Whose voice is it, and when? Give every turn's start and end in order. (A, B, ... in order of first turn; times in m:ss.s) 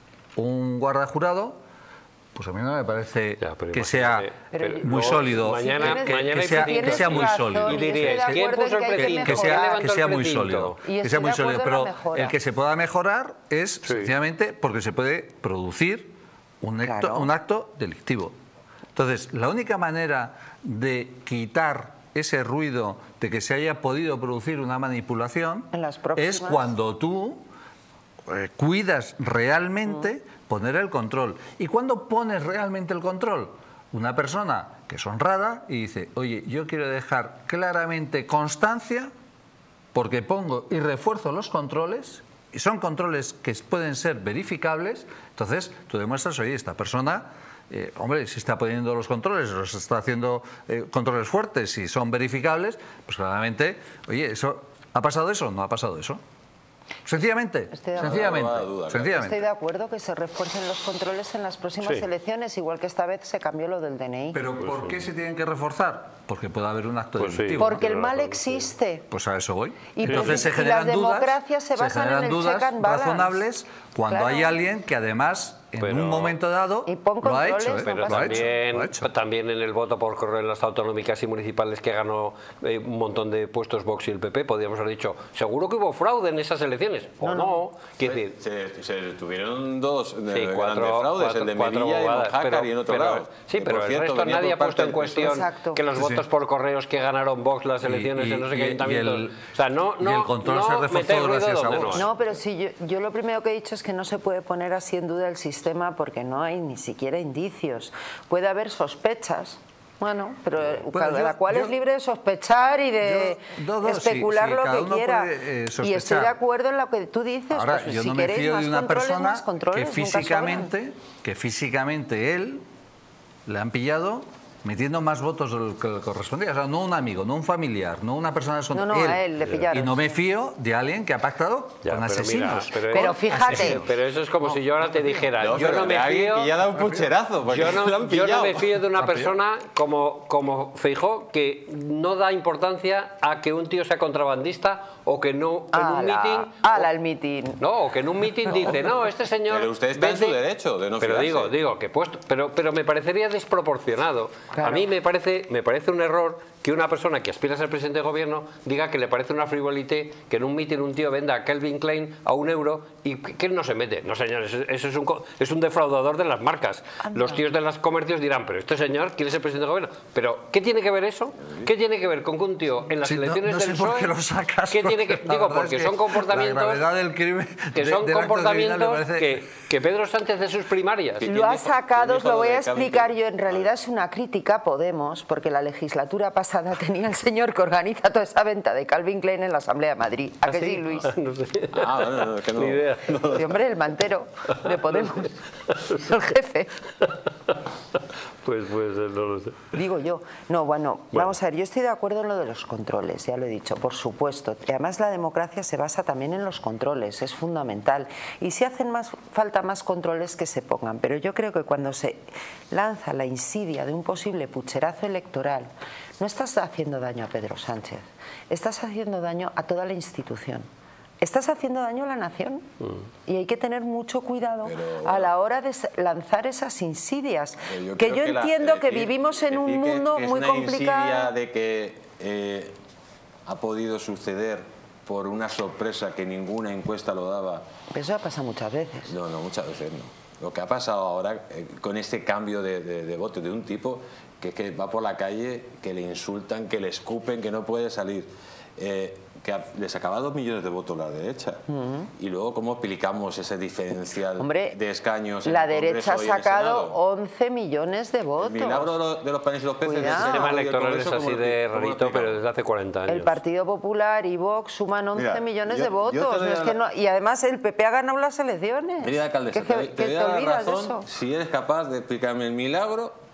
0:00.4-0:01.6 A
0:02.3-0:18.3 A
0:03.4-0:10.8 B
0:04.5-0:10.0 C
0:10.8-0:12.4 C
0:13.8-0:14.1 B
0:16.8-0:17.3 C
0:18.9-0:27.4 A
0:25.7-0:26.7 C
0:28.3-0:39.1 A
0:39.9-0:56.2 A
0:57.0-0:59.4 A
0:57.7-0:58.4 C
0:58.0-0:59.4 D
0:59.1-1:04.4 C
1:04.3-1:07.9 A
1:04.7-1:04.9 B
1:07.2-1:08.4 B
1:07.6-1:09.0 C
1:09.1-1:19.1 A
1:09.9-1:13.4 C
1:10.1-1:10.4 B
1:14.1-1:14.6 C
1:15.8-1:16.4 B
1:16.8-1:18.5 C
1:17.8-1:28.3 B
1:27.2-1:27.6 C
1:28.0-1:35.4 D
1:30.3-1:42.1 B
1:35.2-1:35.8 C
1:35.9-1:36.2 A
1:37.8-1:39.4 A
1:40.0-1:42.1 A
1:41.9-2:00.7 C
1:50.7-1:51.7 A
1:53.0-1:56.4 A
1:57.5-2:02.6 A
2:03.4-2:15.2 A
2:08.7-2:10.2 C
2:11.8-2:16.5 B
2:12.9-2:13.8 C
2:15.4-2:18.8 D
2:16.7-2:17.1 A
2:17.5-2:26.9 B
2:19.0-2:19.4 A
2:25.7-2:27.6 C
2:27.6-2:30.4 B
2:28.5-2:28.8 D
2:29.5-2:31.6 D
2:31.0-2:54.2 B
2:34.5-2:34.9 C
2:47.1-2:47.4 C
2:53.0-2:59.5 A
2:54.7-2:56.8 B
2:57.7-3:01.2 B
3:01.2-3:03.7 D
3:01.2-3:11.1 C
3:10.5-3:13.1 B
3:11.7-3:13.6 D
3:13.3-3:15.4 C
3:15.6-3:16.2 B
3:16.0-3:16.7 C
3:17.0-3:17.6 B
3:18.4-3:19.6 B
3:19.7-3:40.7 C
3:41.2-3:42.6 C
3:43.2-3:51.3 C
3:44.6-3:45.3 D
3:47.7-3:52.7 D
3:53.5-3:57.6 D
3:57.9-3:59.1 C
3:59.1-4:11.6 D
4:11.7-4:12.1 C
4:12.2-4:17.0 D
4:14.4-4:14.8 C
4:15.4-4:18.9 C
4:18.4-4:22.4 D
4:19.8-4:20.5 C
4:20.1-4:23.3 B
4:23.1-4:31.0 C
4:25.1-4:26.8 D
4:29.0-4:33.2 D